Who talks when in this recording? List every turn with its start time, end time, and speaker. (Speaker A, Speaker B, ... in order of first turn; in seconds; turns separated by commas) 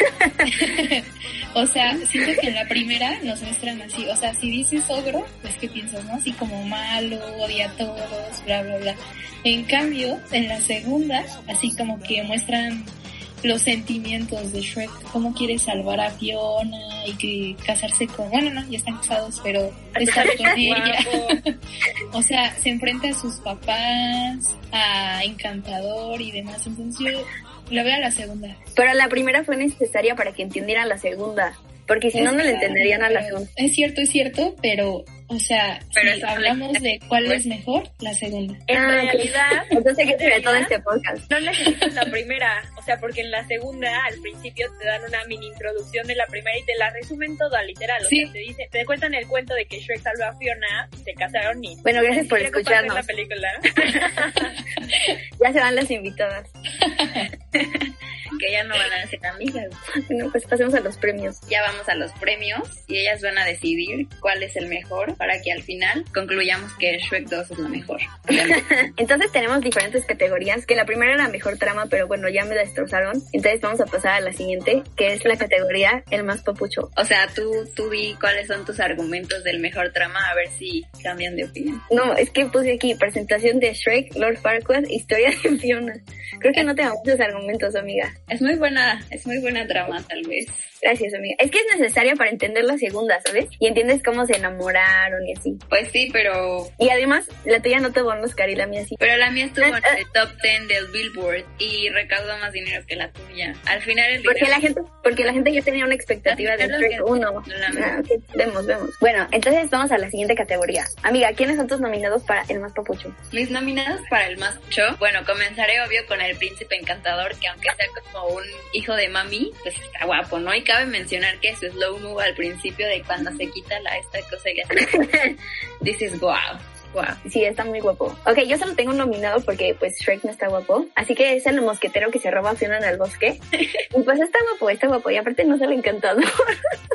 Speaker A: 0.4-21.5, Speaker B: 20.0-21.4, Speaker A: 22.1-28.6, Speaker C: 28.8-33.5, Speaker A: 32.1-38.6, Speaker D: 36.0-37.4, Speaker B: 38.7-40.7, Speaker C: 38.7-41.3, Speaker B: 41.3-54.6, Speaker A: 48.0-48.3, Speaker C: 51.8-53.1, Speaker C: 55.4-56.5, Speaker A: 56.8-57.3, Speaker D: 57.6-57.8, Speaker D: 58.4-59.8, Speaker C: 60.0-61.4, Speaker D: 61.5-68.8, Speaker C: 68.3-76.9, Speaker D: 77.0-81.8, Speaker C: 81.9-88.2, Speaker D: 88.3-90.7, Speaker C: 90.8-95.6, Speaker D: 95.7-96.7, Speaker C: 96.8-99.0, Speaker D: 99.0-104.6, Speaker C: 99.6-100.0, Speaker C: 104.2-113.2, Speaker D: 106.3-108.0, Speaker D: 113.3-127.2, Speaker C: 127.2-133.4, Speaker C: 133.9-136.6